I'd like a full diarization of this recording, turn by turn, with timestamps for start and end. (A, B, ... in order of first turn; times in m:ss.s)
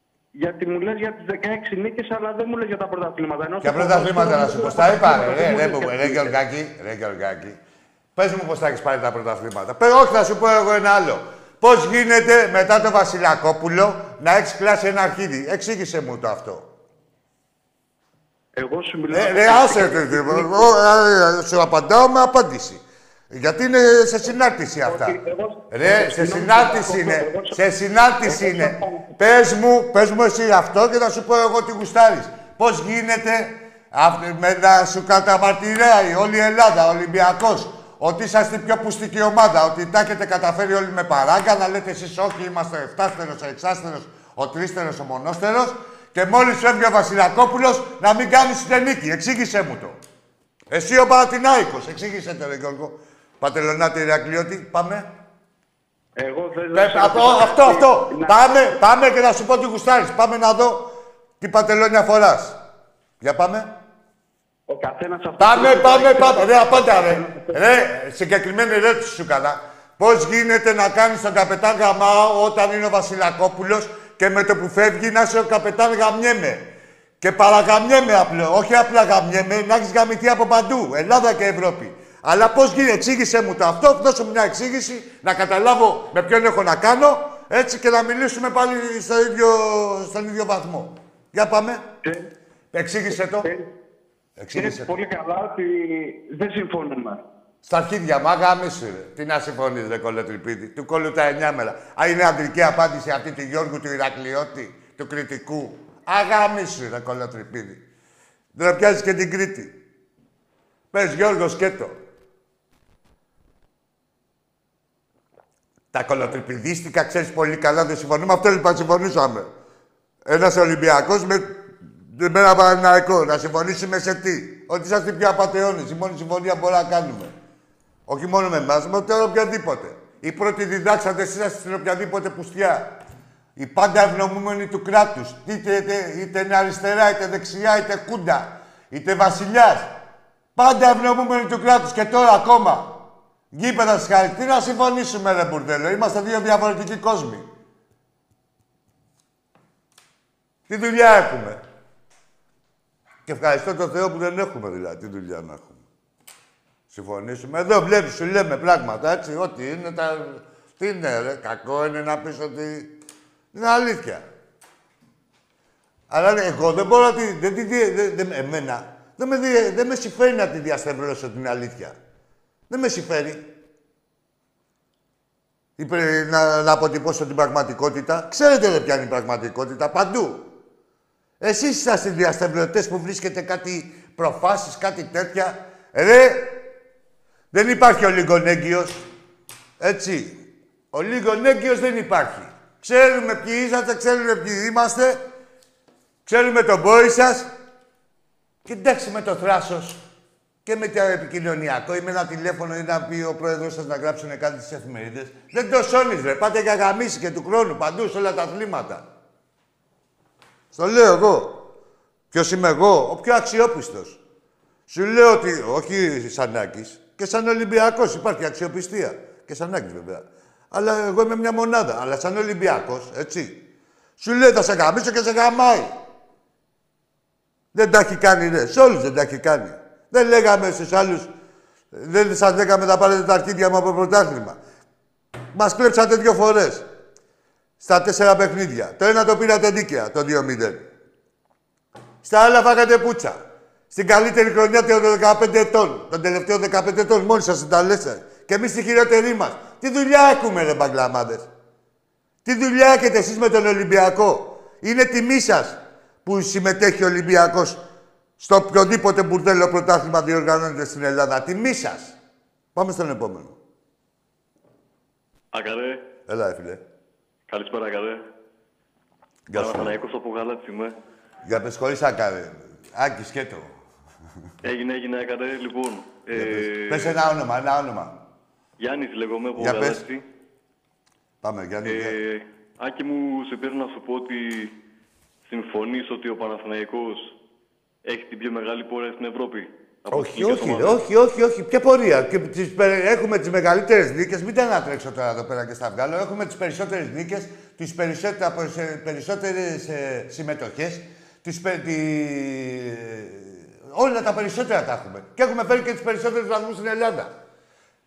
0:00.3-0:06.4 A
0:03.6-0:07.6 B
0:08.2-0:16.7 B
0:18.6-0:20.7 A
0:19.1-0:25.2 B
0:24.8-0:27.6 A
0:25.7-0:50.0 B
0:28.2-0:29.2 A
0:50.7-0:55.1 B
0:56.2-0:58.8 A
0:56.7-1:02.6 B
1:03.2-1:03.7 B
1:04.7-1:07.6 A
1:05.4-1:16.7 B
1:17.2-1:31.8 B
1:32.7-1:33.5 B
1:33.1-1:33.7 A
1:34.4-1:35.0 B
1:34.5-1:37.2 A
1:37.6-1:47.8 B
1:48.6-1:49.8 B
1:50.9-1:52.0 B
1:55.9-1:59.5 B
2:00.2-2:07.3 B
2:08.1-2:13.0 B
2:13.6-2:20.0 B
2:20.6-2:27.5 B
2:30.7-2:31.6 B
2:33.3-2:35.8 B
2:36.9-2:43.0 B
2:43.5-2:44.2 B
2:46.1-2:52.0 B
2:52.7-2:53.5 B
2:55.8-3:00.5 B
3:01.4-3:06.6 B
3:07.5-3:09.0 B
3:09.8-3:15.2 B
3:16.3-3:17.5 B
3:18.6-3:20.0 B
3:20.6-3:29.0 B
3:30.7-3:31.6 B
3:32.3-3:34.2 B
3:34.9-3:43.6 B
3:44.2-3:45.9 B
3:47.7-3:51.3 B
3:51.9-3:54.6 B
3:55.5-3:56.9 B
3:57.8-4:00.9 B
4:02.2-4:03.4 B
4:03.9-4:11.5 B
4:12.4-4:17.8 B
4:18.4-4:22.2 B
4:22.8-4:23.6 B
4:25.5-4:26.0 C
4:26.3-4:26.8 B
4:27.5-4:28.2 C
4:29.5-4:30.0 B
4:29.5-4:31.0 C
4:31.4-4:33.8 B
4:34.6-4:37.2 C
4:36.3-4:38.2 B
4:38.8-4:40.2 C
4:39.6-4:40.0 B
4:41.4-4:42.2 B
4:41.8-4:44.7 C
4:45.5-4:47.3 C
4:48.1-4:51.0 C
4:50.1-5:07.3 B